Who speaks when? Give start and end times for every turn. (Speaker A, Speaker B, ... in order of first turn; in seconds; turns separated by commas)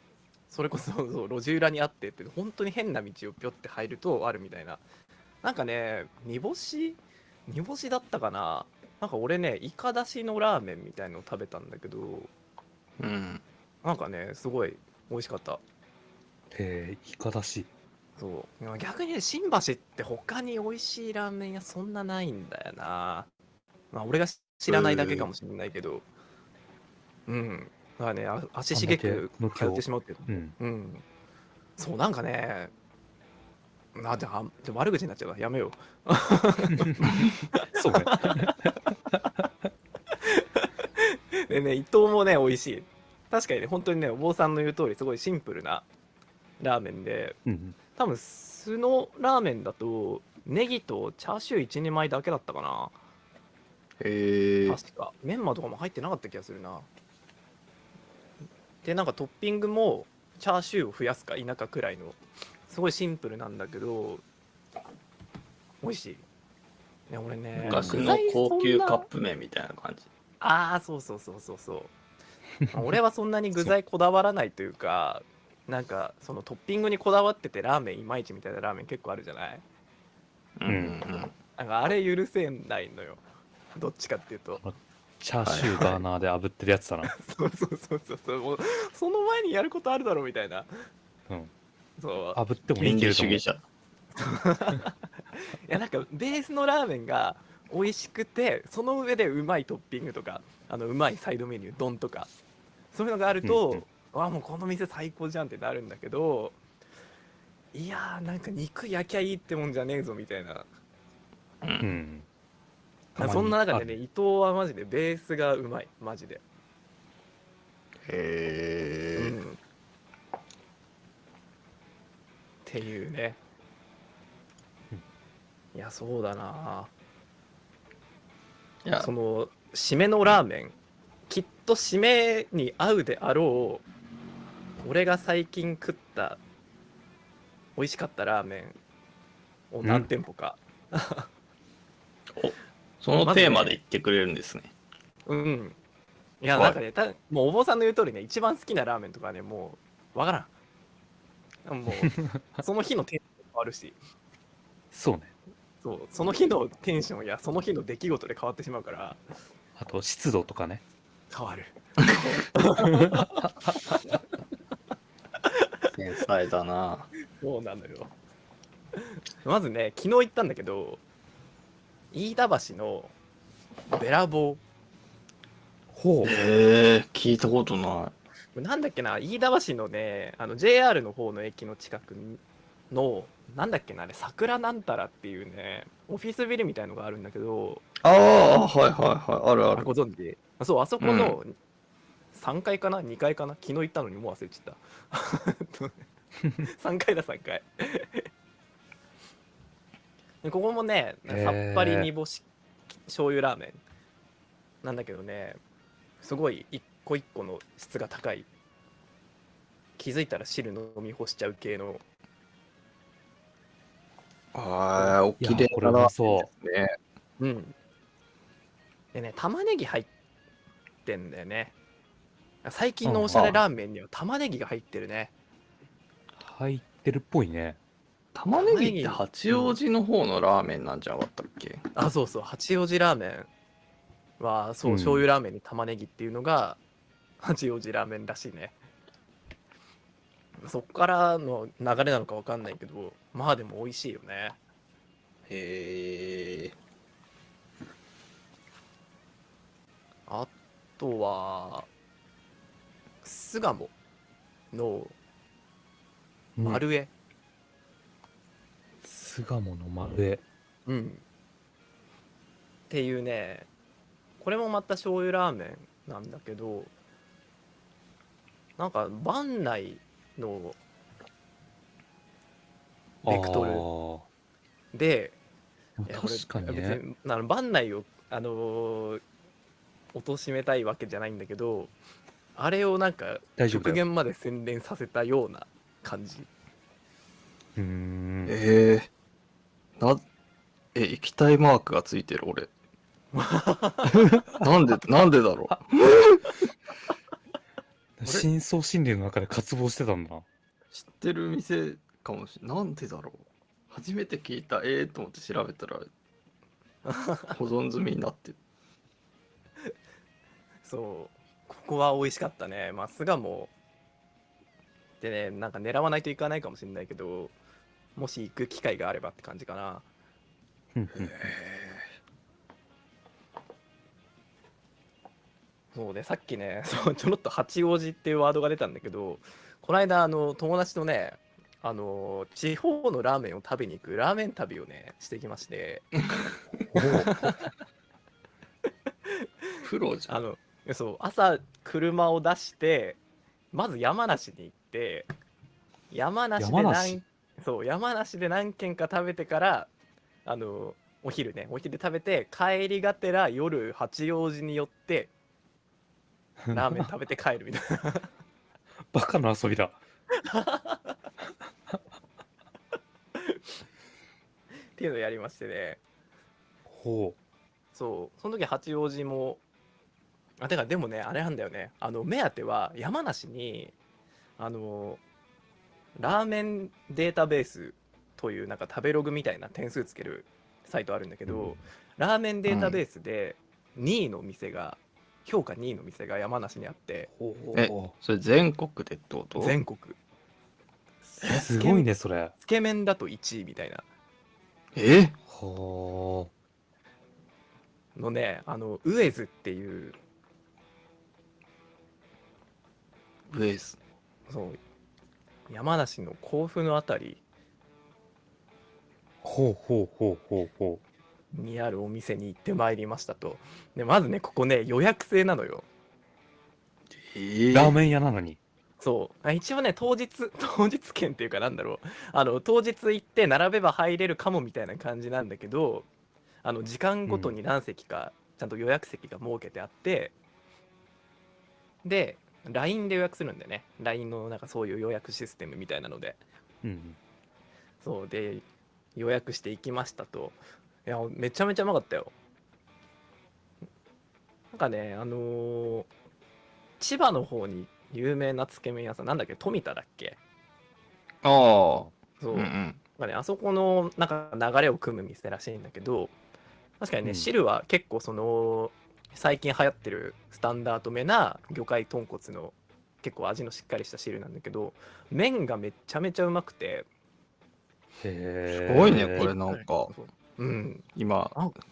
Speaker A: 0.5-4.8, Speaker A: 5.4-12.3, Speaker B: 13.0-13.4, Speaker A: 13.8-15.6, Speaker C: 16.5-17.7, Speaker A: 18.2-23.3, Speaker A: 23.9-26.0, Speaker B: 24.7-25.3, Speaker A: 27.3-31.0, Speaker C: 28.7-30.5, Speaker A: 31.8-32.7, Speaker A: 34.0-38.5, Speaker C: 36.7-37.1, Speaker C: 37.7-39.2, Speaker A: 40.2-45.9, Speaker A: 46.6-47.4, Speaker C: 47.5-47.8, Speaker A: 48.0-53.0, Speaker B: 54.0-54.8, Speaker A: 54.7-56.9, Speaker A: 58.8-64.2, Speaker A: 65.8-66.2, Speaker A: 67.1-69.1, Speaker C: 67.6-68.1, Speaker B: 67.7-70.1, Speaker A: 70.4-71.9, Speaker A: 72.7-79.6, Speaker B: 80.6-81.3, Speaker C: 80.7-81.0, Speaker A: 81.6-83.2, Speaker A: 83.8-84.6, Speaker C: 84.6-87.1, Speaker B: 85.4-86.0, Speaker A: 87.0-90.7, Speaker A: 92.0-92.4, Speaker C: 92.3-93.4, Speaker B: 92.8-93.6, Speaker A: 94.2-102.3, Speaker A: 102.9-106.6, Speaker C: 103.4-103.8, Speaker A: 107.7-110.7, Speaker B: 111.6-112.0, Speaker C: 111.8-112.3, Speaker C: 113.2-113.9, Speaker A: 113.2-116.4, Speaker B: 118.0-119.3, Speaker A: 119.2-119.6, Speaker A: 122.7-123.4, Speaker A: 125.8-126.9, Speaker B: 128.8-129.1, Speaker A: 129.0-130.8, Speaker A: 131.3-133.8, Speaker A: 134.8-136.4, Speaker A: 137.8-138.8, Speaker A: 139.7-141.3, Speaker B: 142.4-144.7, Speaker A: 143.2-143.8, Speaker A: 145.3-145.8, Speaker A: 146.4-150.5, Speaker B: 146.5-146.8, Speaker A: 151.7-154.0, Speaker C: 152.0-152.4, Speaker C: 154.9-155.3, Speaker A: 155.8-159.2, Speaker C: 159.8-160.8, Speaker A: 161.3-164.0, Speaker C: 162.8-163.5, Speaker B: 165.9-167.1, Speaker A: 167.3-168.1, Speaker A: 169.0-171.0, Speaker A: 172.1-173.1, Speaker A: 173.9-174.6, Speaker C: 175.9-176.3, Speaker B: 176.2-178.1, Speaker A: 178.6-187.8, Speaker B: 188.0-189.9, Speaker A: 189.7-191.6, Speaker B: 191.0-191.4, Speaker A: 192.3-196.0, Speaker A: 196.6-198.3, Speaker A: 200.4-202.5, Speaker C: 201.3-202.1, Speaker A: 203.1-203.8, Speaker A: 204.8-205.6, Speaker A: 206.2-208.5, Speaker A: 210.0-212.0, Speaker B: 214.5-216.9, Speaker C: 215.0-216.5, Speaker A: 217.4-217.8, Speaker A: 219.1-220.1, Speaker A: 221.1-221.8, Speaker A: 222.6-225.3, Speaker C: 223.1-223.6, Speaker C: 226.4-227.8, Speaker B: 228.3-231.8, Speaker A: 228.6-229.2, Speaker A: 231.9-233.5, Speaker A: 234.4-236.8, Speaker C: 234.8-235.3, Speaker A: 237.4-238.8, Speaker A: 240.6-244.6, Speaker B: 245.5-246.8, Speaker A: 250.3-251.9, Speaker A: 253.2-253.9, Speaker A: 254.7-255.2, Speaker C: 256.6-256.8, Speaker A: 256.6-257.1, Speaker C: 259.0-260.4, Speaker A: 260.9-261.2, Speaker A: 262.9-263.7, Speaker A: 264.4-266.9, Speaker A: 268.8-270.8, Speaker C: 273.2-274.3, Speaker A: 273.3-273.9, Speaker A: 274.9-275.4, Speaker C: 276.0-277.0, Speaker A: 276.1-279.2, Speaker A: 280.1-281.9, Speaker A: 282.6-286.5, Speaker C: 283.6-284.0, Speaker C: 287.8-288.6, Speaker B: 288.5-289.1, Speaker B: 290.9-292.7, Speaker A: 293.3-294.2, Speaker C: 294.1-294.4, Speaker B: 294.6-296.5, Speaker C: 298.2-300.5, Speaker B: 300.9-306.1, Speaker A: 307.1-307.5, Speaker B: 307.5-308.6, Speaker A: 310.8-313.7, Speaker A: 315.2-317.5, Speaker A: 318.2-320.1, Speaker C: 320.9-321.5, Speaker B: 321.1-322.0, Speaker A: 325.9-336.1, Speaker C: 336.9-337.4, Speaker A: 337.0-337.5, Speaker B: 339.8-340.3, Speaker A: 340.3-343.2, Speaker A: 343.7-345.3, Speaker A: 346.1-349.9, Speaker C: 346.6-347.2, Speaker A: 350.4-355.3, Speaker C: 356.7-357.1, Speaker A: 356.7-358.3, Speaker C: 359.1-360.0, Speaker A: 360.4-361.1, Speaker A: 363.4-363.8, Speaker A: 365.0-366.0, Speaker C: 366.9-367.4, Speaker A: 367.9-369.6, Speaker A: 370.6-373.9, Speaker A: 374.6-375.2, Speaker A: 376.2-387.3, Speaker C: 381.5-381.7, Speaker B: 382.7-383.0, Speaker C: 387.3-388.1, Speaker B: 387.7-389.8, Speaker A: 389.6-390.2, Speaker A: 391.3-392.1, Speaker C: 391.4-392.5, Speaker A: 392.6-394.0, Speaker B: 394.9-395.4, Speaker C: 395.5-396.5, Speaker A: 398.2-400.2, Speaker B: 403.5-404.0, Speaker A: 404.5-404.8, Speaker A: 405.7-407.4, Speaker C: 409.4-411.0, Speaker A: 411.5-415.9, Speaker B: 417.2-418.0, Speaker C: 417.7-418.6, Speaker A: 419.0-426.1, Speaker A: 426.6-430.3, Speaker C: 427.3-427.6, Speaker A: 432.0-436.4, Speaker C: 436.8-437.2, Speaker A: 438.0-438.6, Speaker A: 439.2-442.3, Speaker A: 444.7-446.1, Speaker A: 447.0-450.4, Speaker B: 451.4-453.0, Speaker A: 452.4-456.3, Speaker A: 457.0-467.1, Speaker C: 457.2-457.5, Speaker C: 468.2-469.5, Speaker B: 468.7-470.1, Speaker A: 469.3-471.8, Speaker B: 471.2-471.6